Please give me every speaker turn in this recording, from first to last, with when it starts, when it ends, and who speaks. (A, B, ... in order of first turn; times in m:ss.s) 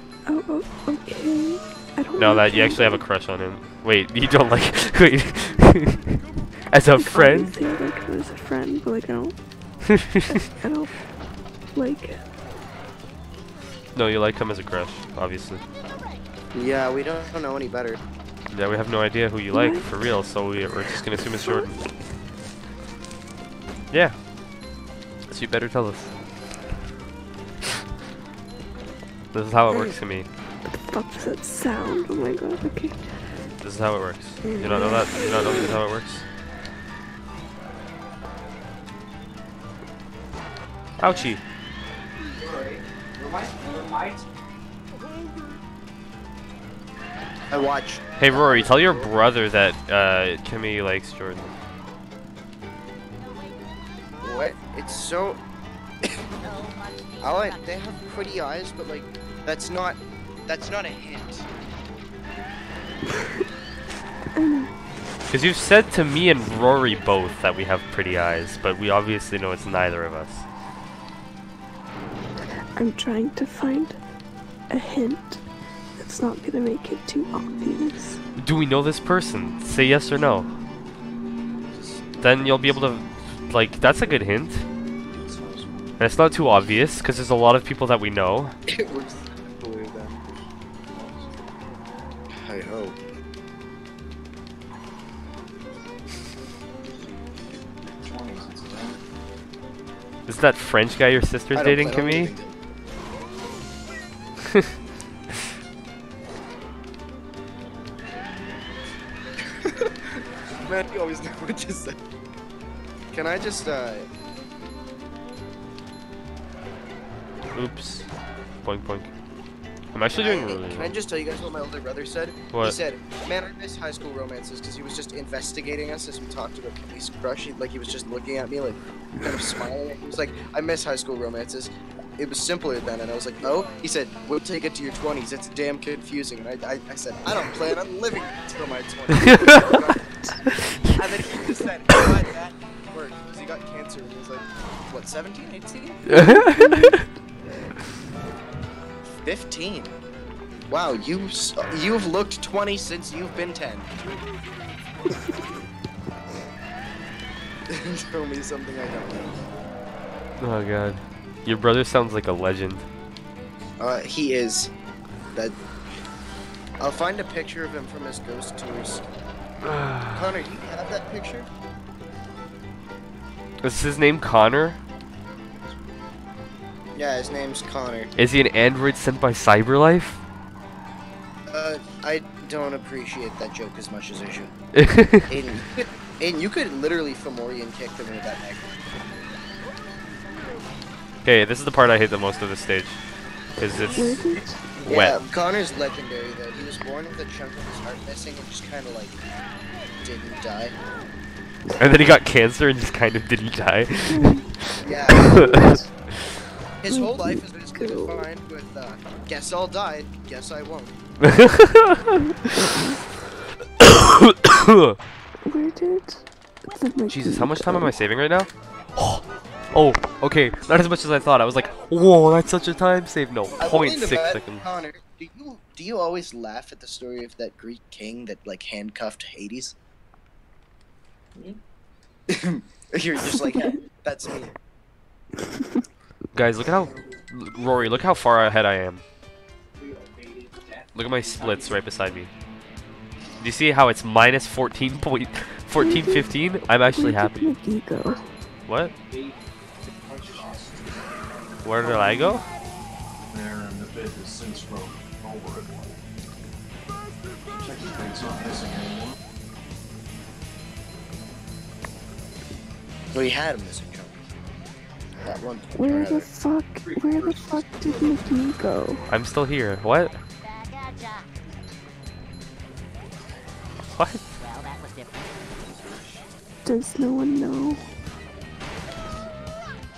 0:00.3-0:03.0 A
0:02.2-0:07.6 B
0:07.0-0:11.0 A
0:09.9-0:10.3 B
0:11.7-0:12.2 A
0:13.9-0:15.6 B
0:16.5-0:18.0 C
0:18.5-0:21.8 B
0:19.5-0:19.9 A
0:21.4-0:21.8 A
0:23.9-0:24.3 B
0:25.3-0:26.4 B
0:29.3-0:30.3 B
0:30.7-0:33.2 A
0:33.6-0:36.2 B
0:34.5-0:35.6 A
0:41.0-0:41.4 B
0:42.4-0:44.2 D
0:47.5-0:49.1 C
0:48.2-0:51.5 B
0:53.2-0:54.4 E
0:54.2-0:55.4 C
0:56.4-0:57.9 E
0:57.2-1:01.5 C
1:04.3-1:04.7 A
1:05.3-1:10.5 B
1:12.8-1:14.0 A
1:14.7-1:15.4 A
1:16.0-1:18.2 A
1:18.4-1:20.5 B
1:22.2-1:24.7 B
1:25.1-1:25.6 F
1:26.0-1:28.6 B
1:28.7-1:30.2 C
1:30.9-1:31.3 F
1:32.4-1:33.0 C
1:38.0-1:38.9 F
1:38.2-1:38.9 C
1:40.3-1:42.3 B
1:41.5-1:42.5 C
1:50.6-1:52.0 C
1:53.1-1:54.1 C
1:57.5-1:58.1 B
1:58.6-1:59.1 B
1:59.9-2:01.0 B
2:00.1-2:26.0 C
2:02.5-2:02.8 B
2:26.1-2:27.0 B
2:26.2-2:27.0 A
2:29.2-2:30.0 C
2:30.7-2:33.9 C
2:37.7-2:39.3 C
2:40.4-2:42.9 B
2:43.8-2:44.7 C
2:46.8-2:49.0 C
2:49.6-2:50.2 B
2:50.1-2:51.5 C
2:53.6-2:54.8 B
2:57.0-2:58.1 C
2:58.2-3:00.2 B
3:01.5-3:04.5 C
3:04.7-3:05.3 B
3:05.3-3:08.7 C
3:11.2-3:13.0 B
3:13.6-3:15.2 B
3:13.9-3:14.6 A
3:14.8-3:19.2 C
3:20.0-3:20.8 C
3:21.8-3:26.4 B
3:24.1-3:24.5 A
3:24.8-3:25.8 C
3:26.8-3:30.9 C
3:26.9-3:28.2 A
3:31.2-3:32.7 B
3:33.8-3:35.0 B
3:35.4-3:37.9 A
3:37.1-3:44.7 B
3:43.6-3:49.8 C
3:52.3-3:54.6 C
3:56.3-3:59.0 B
3:56.9-3:57.2 D
3:59.8-4:01.8 D
4:01.0-4:02.3 B
4:03.4-4:07.5 B
4:05.8-4:06.4 A
4:06.9-4:08.2 A
4:08.7-4:08.9 B
4:09.0-4:09.9 D
4:10.0-4:11.0 F
4:11.6-4:12.5 B
4:13.3-4:16.0 F
4:17.6-4:19.2 F
4:23.1-4:24.2 C
4:25.2-4:26.3 C
4:25.7-4:29.1 A
4:26.8-4:28.1 D
4:29.1-4:30.2 B
4:30.4-4:31.3 E
4:34.0-4:34.2 B
4:34.4-4:35.5 E
4:36.6-4:37.8 A